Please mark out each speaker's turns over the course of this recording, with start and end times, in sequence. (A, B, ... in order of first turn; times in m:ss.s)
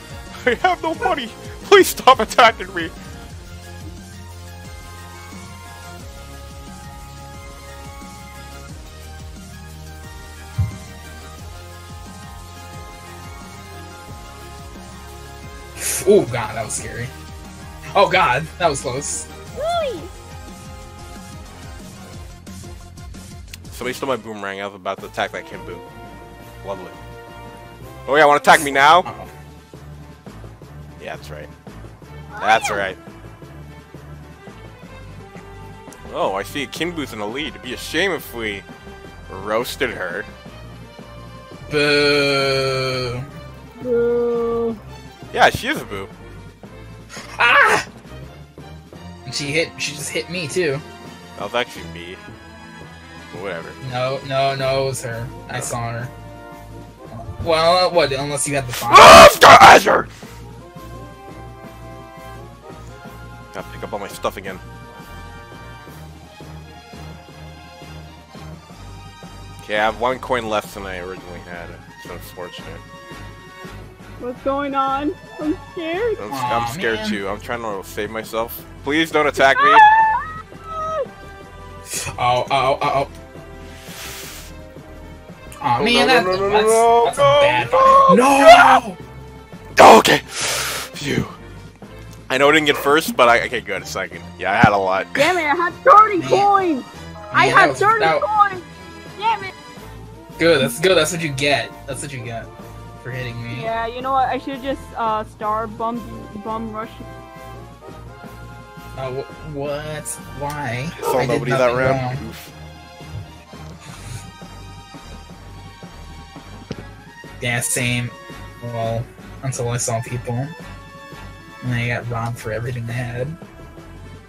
0:00.3-0:02.9 A
0:15.8-0:17.1 B
0:17.9-0:19.3 B
0:19.5-0:20.1 C
0:23.7-0:25.8 A
0:26.6-0:27.0 A
0:28.0-0:29.1 A
0:29.0-0:29.3 B
0:31.0-0:31.5 A
0:32.3-0:32.8 C
0:32.4-0:33.0 A
0:36.1-0:38.6 A
0:39.3-0:40.3 A
0:41.7-0:43.3 B
0:43.8-0:44.8 C
0:45.3-0:46.1 A
0:47.3-0:47.8 B
0:49.2-0:50.8 B
0:51.4-0:52.2 A
0:53.3-0:53.8 A
0:53.8-0:56.1 B
0:57.1-0:59.3 B
0:58.8-1:00.1 A
1:03.5-1:04.6 A
1:09.6-1:12.8 A
1:14.2-1:16.2 C
1:16.2-1:19.8 A
1:16.3-1:17.2 B
1:19.4-1:21.1 C
1:21.9-1:23.1 B
1:25.6-1:29.0 B
1:25.8-1:28.1 A
1:27.7-1:28.8 C
1:29.8-1:31.4 A
1:32.3-1:35.3 A
1:35.2-1:38.6 C
1:36.2-1:36.5 B
1:37.3-1:38.2 B
1:39.2-1:39.5 C
1:40.4-1:42.5 B
1:43.0-1:43.7 B
1:43.5-1:47.0 C
1:49.0-1:52.2 B
1:51.0-1:52.5 A
1:57.4-2:00.5 B
2:01.6-2:03.4 B